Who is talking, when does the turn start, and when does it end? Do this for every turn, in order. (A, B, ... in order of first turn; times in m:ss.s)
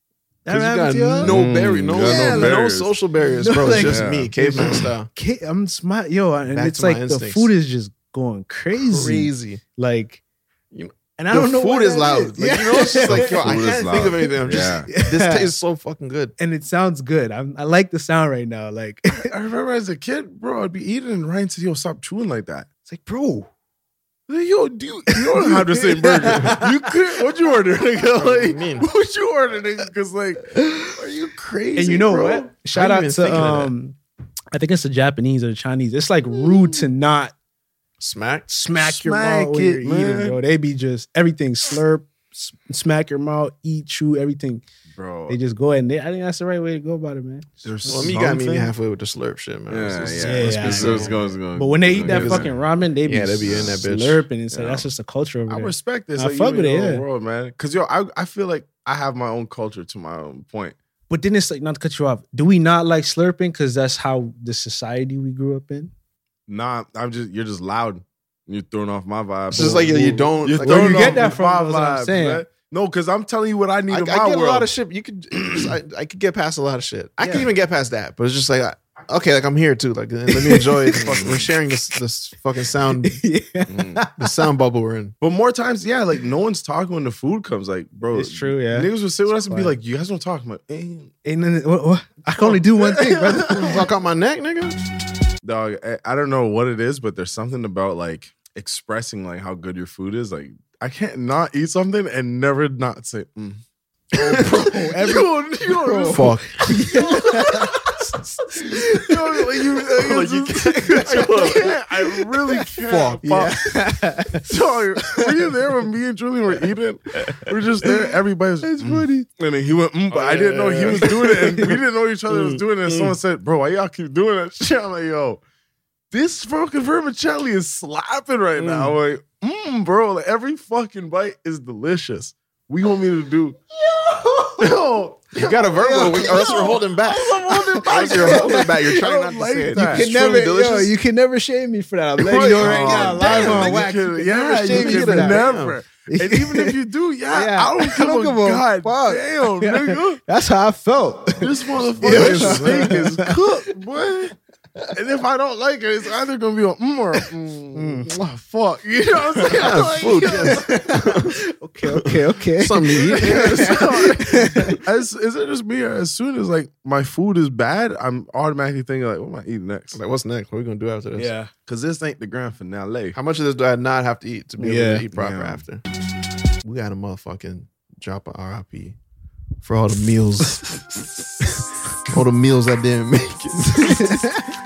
0:00.5-0:02.6 A
0:00.5-0:05.1 B
0:01.2-0:03.0 C
0:03.2-0:10.2 A
0:03.7-0:04.7 C
0:06.5-0:07.5 B
0:08.7-0:09.6 B
0:10.7-0:16.4 B
0:11.2-0:14.3 A
0:12.9-0:14.9 C
0:14.9-0:15.5 A
0:16.4-0:19.3 A
0:19.1-0:22.7 C
0:22.9-0:23.5 A
0:24.3-0:32.5 C
0:25.1-0:26.7 A
0:28.1-0:28.9 B
0:31.8-0:34.0 A
0:32.7-0:33.7 B
0:34.5-0:37.3 A
0:36.3-0:36.8 C
0:38.0-0:38.5 B
0:38.5-0:44.6 A
0:38.8-0:40.4 C
0:44.9-0:45.4 C
0:45.3-0:47.6 A
0:47.6-0:48.7 C
0:47.8-0:51.2 B
0:49.7-0:52.5 C
0:50.2-0:57.0 A
0:52.0-0:54.3 B
0:53.4-0:53.8 C
0:54.5-0:54.9 C
0:55.5-1:00.8 C
1:01.1-1:05.9 A
1:06.5-1:14.7 C
1:09.5-1:11.3 B
1:10.6-1:12.4 A
1:13.9-1:23.2 B
1:20.3-1:21.2 A
1:21.0-1:21.5 C
1:23.0-1:24.1 A
1:23.7-1:24.0 C
1:24.2-1:25.1 B
1:25.2-1:31.1 C
1:28.1-1:29.8 A
1:31.2-1:33.8 A
1:32.4-1:33.7 C
1:33.4-1:34.8 B
1:35.4-1:43.6 C
1:44.2-1:49.2 A
1:44.2-1:44.5 B
1:44.2-1:48.0 C
1:46.1-1:46.6 B
1:48.6-1:53.8 C
1:49.9-1:53.2 B
1:51.0-1:51.7 A
1:53.2-1:54.5 A
1:54.3-2:05.4 C
1:58.6-1:59.3 A
2:00.1-2:01.7 B
2:00.9-2:01.3 A
2:02.4-2:03.1 B
2:06.1-2:13.6 C
2:08.6-2:08.9 B
2:13.8-2:14.7 A
2:14.6-2:20.1 C
2:15.3-2:20.9 B
2:15.8-2:16.8 A
2:17.7-2:18.8 A
2:19.7-2:25.4 A
2:22.2-2:30.2 C
2:22.2-2:23.9 B
2:24.7-2:25.8 B
2:26.1-2:26.8 A
2:27.3-2:33.4 A
2:31.4-2:34.4 C
2:32.0-2:33.0 B
2:34.9-2:40.7 C
2:37.8-2:38.1 A
2:39.4-2:44.7 B
2:39.4-2:44.8 A
2:43.0-2:50.0 C
2:49.9-2:51.3 B
2:51.2-2:51.5 A
2:51.7-2:53.2 C
2:53.1-2:55.8 B
2:54.6-2:55.1 A
2:55.1-2:55.6 C
2:56.6-2:59.0 B
2:59.6-3:01.0 B
3:02.1-3:04.2 B
3:03.6-3:04.0 C
3:03.8-3:04.5 A